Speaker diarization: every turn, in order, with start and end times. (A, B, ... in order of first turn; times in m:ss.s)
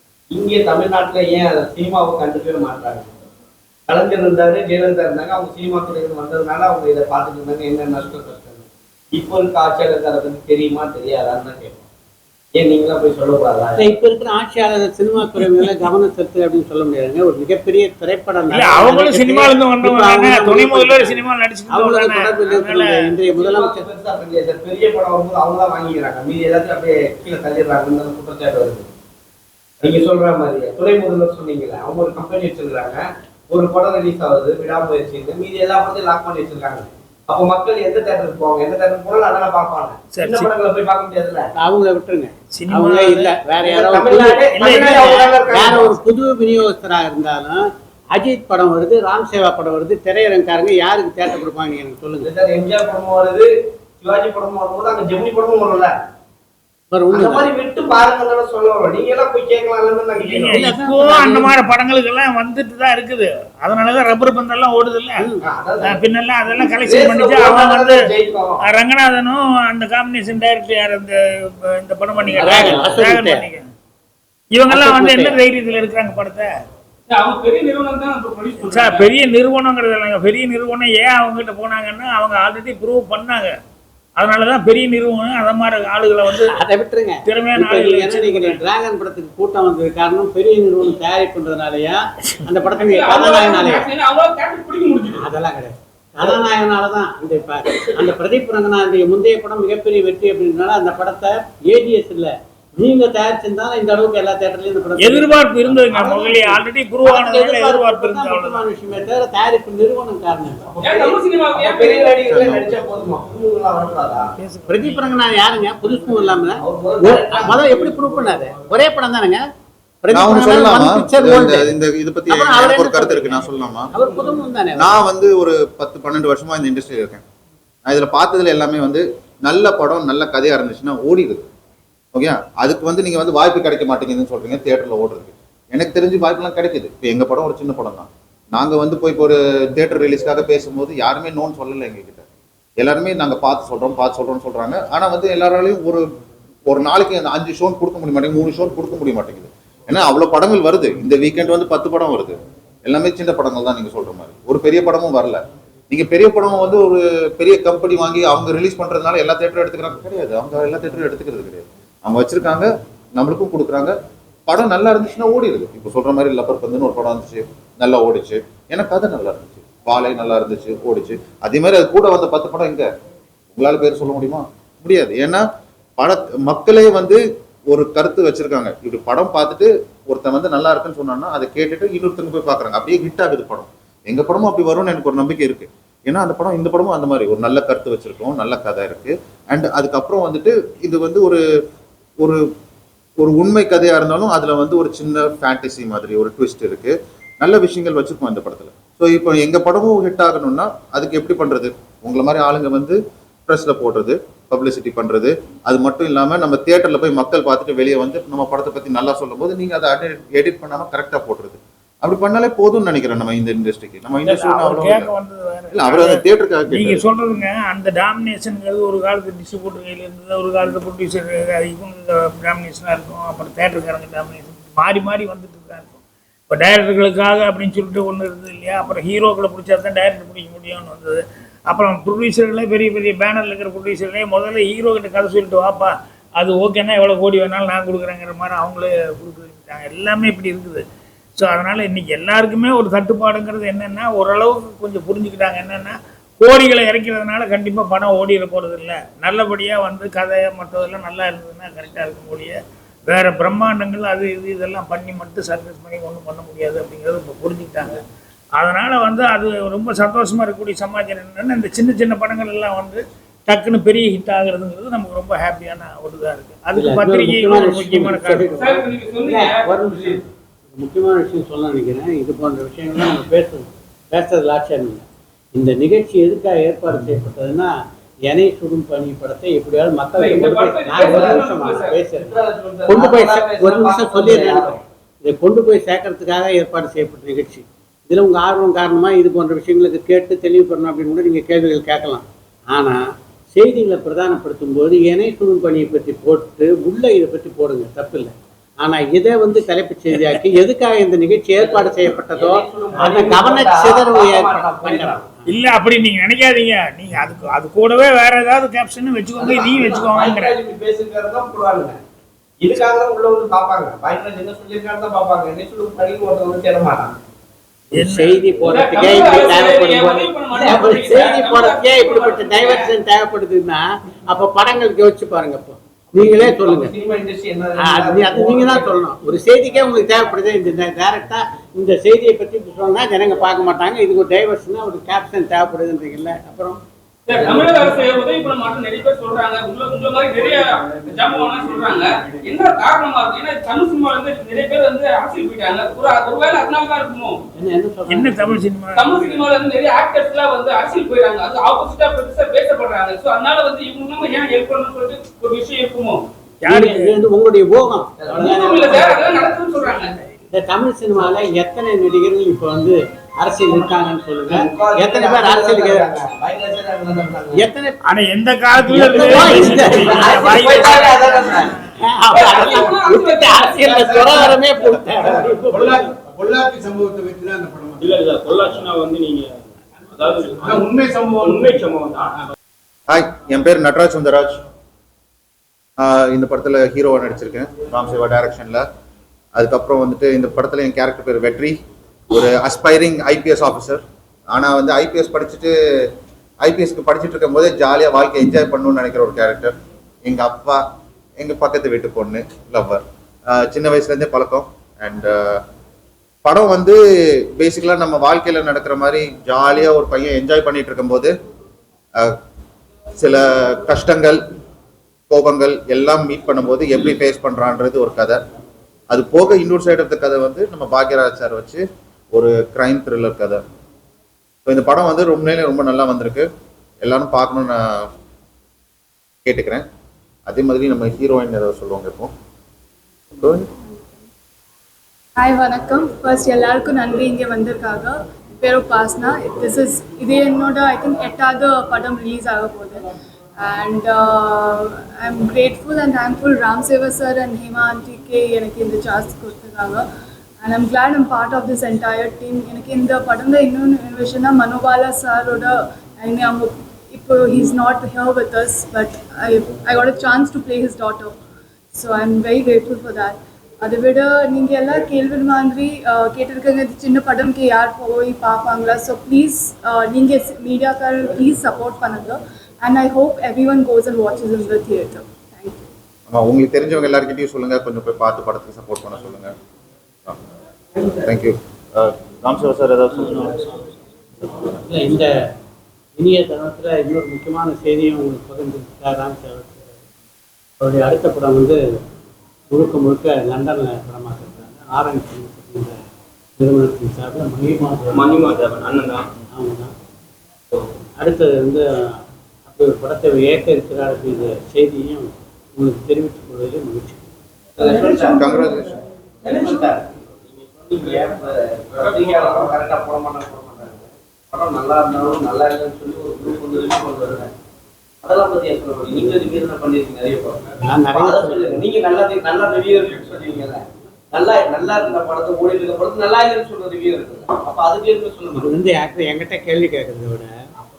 0:00.3-0:03.1 A
0:03.9-0:11.8 A
0:12.5-0:13.9 A
0:13.8-0:23.8 B
0:18.5-0:23.1 C
0:23.3-0:28.9 A
0:29.8-0:41.5 A
0:40.1-0:40.5 C
0:41.6-0:52.3 B
0:42.5-0:43.4 C
0:43.6-0:46.0 A
0:44.6-0:45.1 C
0:52.2-0:53.5 A
0:54.0-0:55.9 A
0:56.9-0:57.5 B
0:57.1-1:00.7 A
1:00.2-1:05.3 C
1:00.4-1:01.5 B
1:05.4-1:06.0 A
1:05.8-1:08.1 C
1:06.6-1:08.6 A
1:08.6-1:13.7 C
1:12.3-1:12.9 A
1:12.4-1:13.5 B
1:14.5-1:16.5 C
1:14.7-1:15.4 B
1:17.1-1:19.1 D
1:18.6-1:23.5 C
1:24.2-1:26.6 C
1:26.5-1:33.9 B
1:27.3-1:28.6 C
1:32.8-1:35.2 D
1:35.2-1:50.7 B
1:45.0-1:48.6 C
1:50.8-1:54.3 A
1:50.8-1:52.2 D
1:52.3-1:52.7 E
1:54.4-1:55.3 C
1:54.7-1:59.4 B
1:56.6-1:58.0 A
2:00.0-2:01.7 B
2:00.1-2:03.9 E
2:02.3-2:05.0 B
2:04.8-2:07.2 E
2:07.8-2:11.5 E
2:12.1-2:22.2 E
2:22.8-2:26.0 E
2:26.7-2:43.9 E
2:44.5-2:52.9 E
2:53.5-2:55.4 E
2:56.0-3:11.4 E
3:13.2-3:35.1 E
3:34.2-3:46.0 C
3:35.7-3:37.0 E
3:46.5-4:00.8 C
4:01.4-4:18.0 C
4:18.6-4:28.5 C
4:26.7-4:35.0 B
4:28.5-4:30.2 D
4:35.6-4:37.7 B
4:38.3-4:53.0 B
4:40.2-4:42.0 D
4:40.9-4:41.4 A
4:42.1-4:44.8 A
4:53.5-5:05.2 B
5:01.6-5:05.3 A
5:05.5-5:10.5 C
5:09.4-5:12.0 A
5:12.6-5:17.1 A
5:17.9-5:18.7 C
5:17.9-5:26.9 B
5:18.6-5:22.9 D
5:26.2-5:28.9 A
5:27.8-5:36.8 B
5:37.2-5:47.4 D
5:37.3-5:38.1 A
5:47.6-5:48.6 B
5:48.1-5:49.2 C
5:48.9-5:56.2 D
5:56.6-5:57.2 C
5:56.6-5:59.2 B
5:58.2-5:59.6 A
5:58.4-6:00.2 D
6:00.5-6:06.0 B
6:04.5-6:07.6 A
6:07.5-6:08.0 B
6:08.0-6:11.9 C
6:08.8-6:10.7 B
6:09.7-6:11.8 A
6:12.0-6:16.1 B
6:12.3-6:14.0 D
6:13.8-6:18.2 F
6:18.0-6:22.3 G
6:20.6-6:21.8 F
6:23.1-6:24.6 E
6:26.0-6:28.9 E
6:29.5-6:31.8 E
6:32.3-6:40.8 E
6:41.4-6:45.6 E
6:46.4-6:51.4 E
6:53.2-6:54.4 E
6:55.3-6:58.4 E
6:59.1-7:03.6 E
7:04.6-7:06.5 E
7:07.0-7:08.1 E
7:09.4-7:09.9 E
7:10.4-7:12.3 E
7:13.4-7:13.7 E
7:15.4-7:30.0 H
7:30.6-7:41.4 H
7:41.9-7:55.9 H
7:56.3-7:59.6 E
8:01.1-8:03.8 E
8:04.4-8:04.7 E
8:04.8-8:05.3 B
8:06.2-8:09.9 B
8:10.8-8:11.8 B
8:12.7-8:16.0 B
8:16.6-8:18.5 B
8:18.1-8:19.2 G
8:19.5-8:19.9 B
8:21.2-8:27.2 B
8:27.8-8:28.5 A
8:27.8-8:29.0 F
8:28.4-8:28.9 E
8:29.4-8:30.1 A
8:29.5-8:29.9 F
8:30.7-8:37.5 A
8:38.2-8:48.8 A
8:40.8-8:41.8 B
8:48.6-8:50.5 B